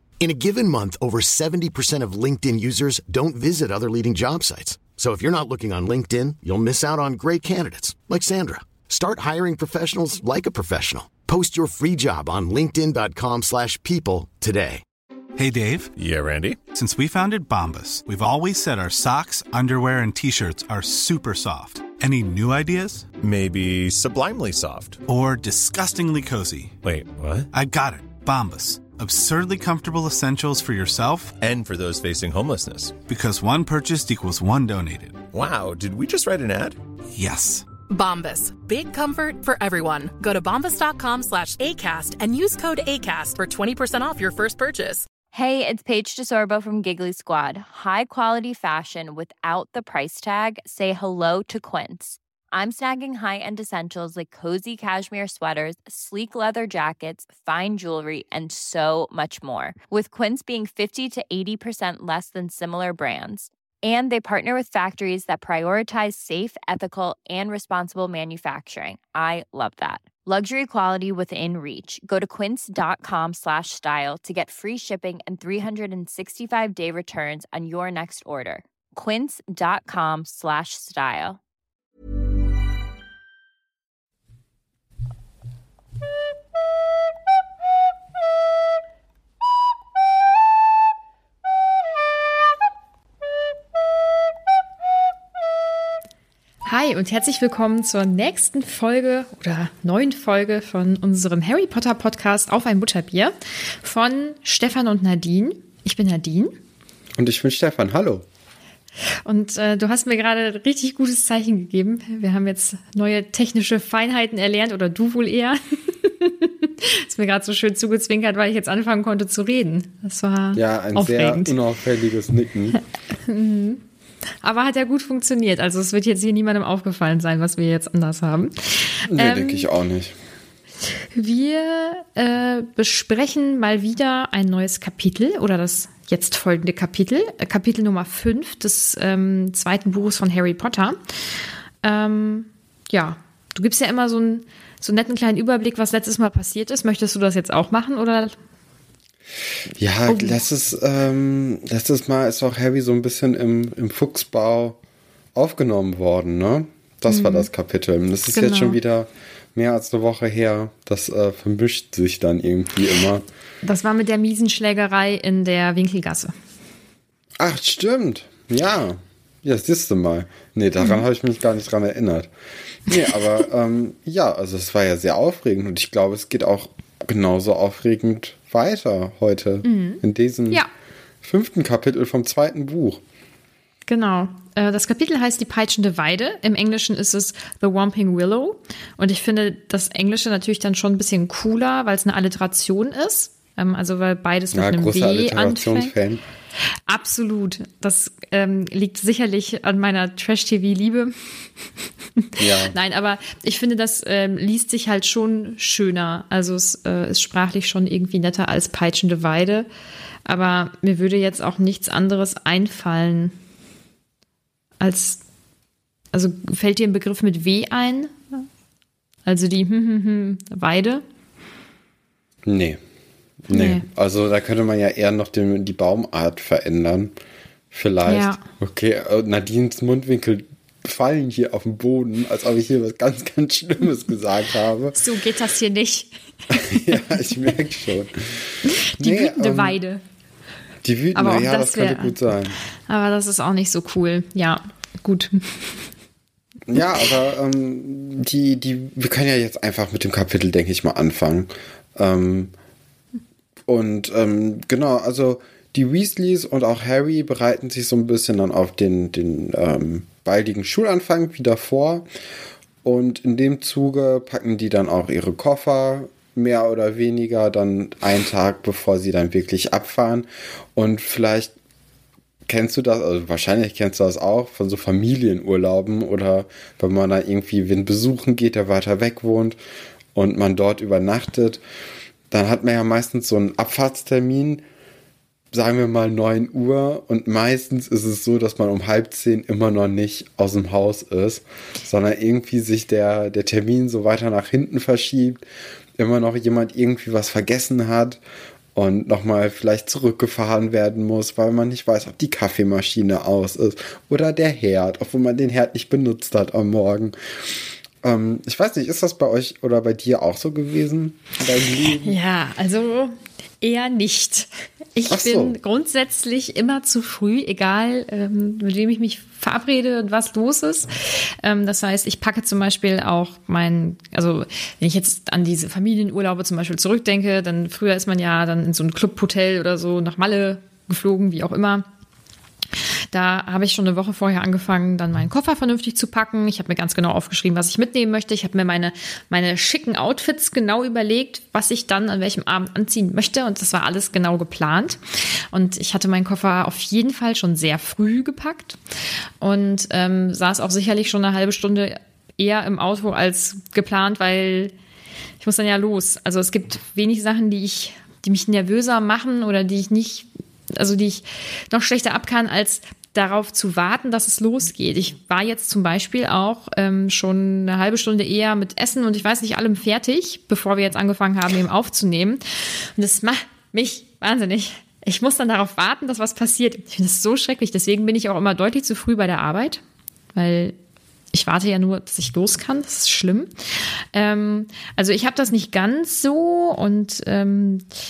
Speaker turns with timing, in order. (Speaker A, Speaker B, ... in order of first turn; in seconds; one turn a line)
Speaker A: 0.2-14.8
Speaker B: 15.3-15.9
Speaker C: 15.9-16.6
Speaker B: 16.7-23.1
Speaker C: 23.2-25.0
Speaker B: 25.1-26.8
Speaker C: 26.8-27.5
Speaker B: 27.5-31.3
Speaker C: 31.4-33.0
Speaker B: 33.1-35.2
Speaker C: 35.3-36.8
Speaker B: 37.1-37.6
Speaker D: 37.9-45.0
Speaker E: 45.3-81.4
Speaker F: 96.7-106.5
Speaker G: 107.2-108.2
Speaker F: 109.2-121.5
Speaker G: 120.5-122.8
Speaker F: 123.2-123.8
Speaker F: 124.4-129.7
Speaker G: 129.1-130.2
Speaker F: 131.1-141.0
Speaker F: 141.8-148.4
Speaker G: 149.8-154.8
Speaker F: 150.1-150.4
Speaker G: 155.3-163.2
Speaker F: 157.1-157.5
Speaker F: 158.3-158.8
Speaker F: 163.6-166.3
Speaker G: 167.4-172.3
Speaker G: 172.9-180.6
Speaker F: 179.6-180.7
Speaker G: 181.2-183.0
Speaker F: 183.9-195.9
Speaker G: 194.5-196.2
Speaker F: 196.9-201.1
Speaker F: 202.2-209.7
Speaker G: 202.4-202.8
Speaker F: 210.2-213.3
Speaker F: 214.8-215.2
Speaker F: 216.1-218.4
Speaker F: 219.2-221.0
Speaker G: 222.4-222.8
Speaker G: 223.4-227.1
Speaker F: 223.5-223.8
Speaker G: 227.7-235.0
Speaker F: 228.0-228.4
Speaker F: 234.9-237.2
Speaker G: 236.5-239.8
Speaker F: 238.6-240.0
Speaker G: 240.8-242.6
Speaker F: 241.1-242.2
Speaker F: 242.9-245.8
Speaker G: 246.7-252.5
Speaker G: 253.7-262.0
Speaker G: 262.8-271.5
Speaker G: 272.5-279.6
Speaker G: 280.1-281.6
Speaker G: 282.3-284.6
Speaker G: 285.5-295.4
Speaker G: 296.0-298.2
Speaker G: 298.7-307.1
Speaker G: 308.0-312.1
Speaker F: 312.0-331.9
Speaker G: 315.1-315.6
Speaker F: 333.1-345.0
Speaker F: 345.5-348.8
Speaker F: 349.4-354.7
Speaker F: 355.4-372.4
Speaker F: 372.9-379.8
Speaker F: 380.3-380.7
Speaker F: 381.3-383.5
Speaker F: 384.1-387.8